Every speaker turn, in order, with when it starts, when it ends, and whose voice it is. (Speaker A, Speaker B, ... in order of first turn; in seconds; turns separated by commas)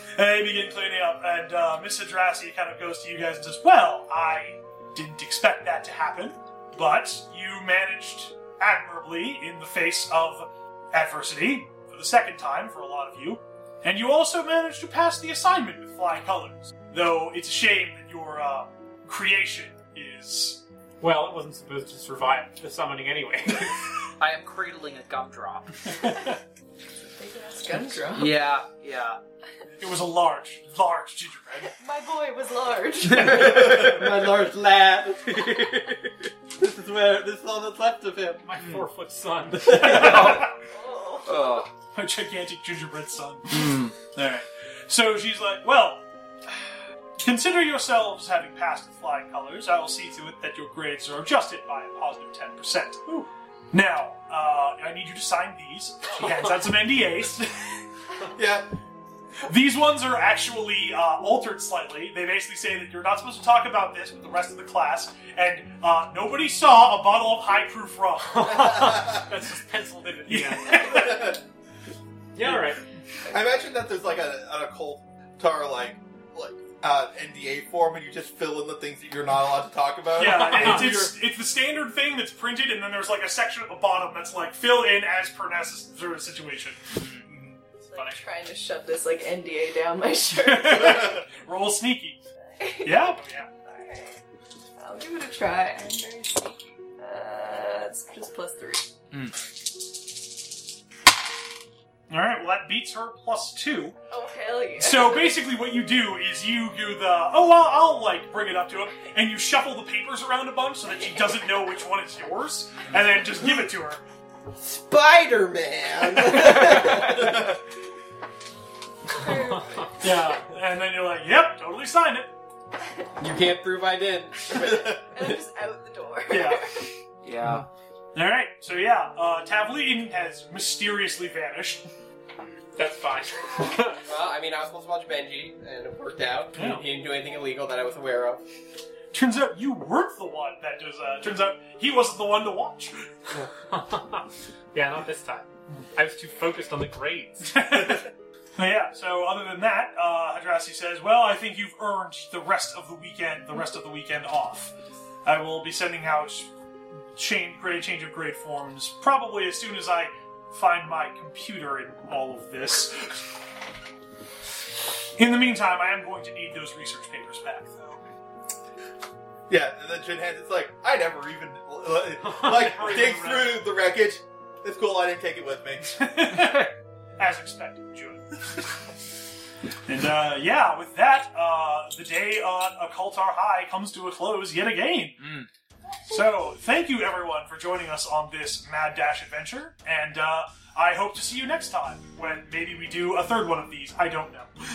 Speaker A: 0.2-20.6, Speaker B: 21.0-23.8, Speaker C: 24.2-25.9, Speaker D: 27.1-28.4, Speaker C: 28.1-29.2, Speaker A: 29.8-31.7, Speaker D: 31.8-33.6, Speaker C: 33.1-34.0, Speaker E: 33.3-35.4, Speaker C: 35.2-36.1, Speaker E: 36.6-38.5, Speaker B: 38.5-40.2, Speaker C: 38.6-38.9, Speaker A: 39.6-40.5, Speaker C: 39.7-40.5, Speaker D: 40.6-41.5, Speaker C: 41.2-41.7, Speaker A: 41.9-46.0, Speaker C: 43.5-43.9, Speaker A: 47.2-57.8, Speaker F: 58.3-58.7, Speaker A: 59.4-69.1, Speaker B: 68.3-71.2, Speaker F: 68.7-69.2, Speaker A: 70.3-71.3, Speaker F: 70.8-71.4, Speaker B: 72.3-72.8, Speaker F: 73.3-81.1, Speaker A: 80.2-86.9, Speaker B: 80.3-81.1, Speaker C: 86.9-87.3, Speaker F: 87.2-87.6, Speaker D: 87.8-91.2, Speaker A: 90.4-92.2, Speaker D: 92.5-94.2, Speaker A: 92.8-93.5, Speaker D: 94.8-98.9, Speaker C: 99.1-99.4, Speaker A: 102.1-104.0, Speaker D: 104.1-105.4, Speaker A: 104.8-114.0, Speaker E: 114.6-117.6, Speaker F: 117.0-117.5, Speaker D: 119.1-120.0, Speaker B: 119.3-119.9, Speaker A: 120.0-122.3, Speaker E: 123.2-125.4, Speaker D: 124.9-126.9, Speaker A: 126.3-126.7, Speaker C: 127.2-127.7, Speaker A: 128.2-131.9, Speaker B: 132.8-134.0, Speaker E: 134.0-138.4, Speaker A: 136.6-136.8, Speaker A: 139.1-143.1, Speaker B: 143.7-147.6, Speaker A: 147.5-154.7, Speaker A: 155.2-156.5, Speaker A: 157.2-163.1, Speaker A: 165.2-168.0, Speaker F: 169.5-176.1, Speaker A: 172.4-173.6, Speaker B: 173.1-173.4, Speaker A: 176.0-178.7, Speaker A: 179.9-185.2, Speaker C: 185.2-185.5, Speaker A: 186.1-194.5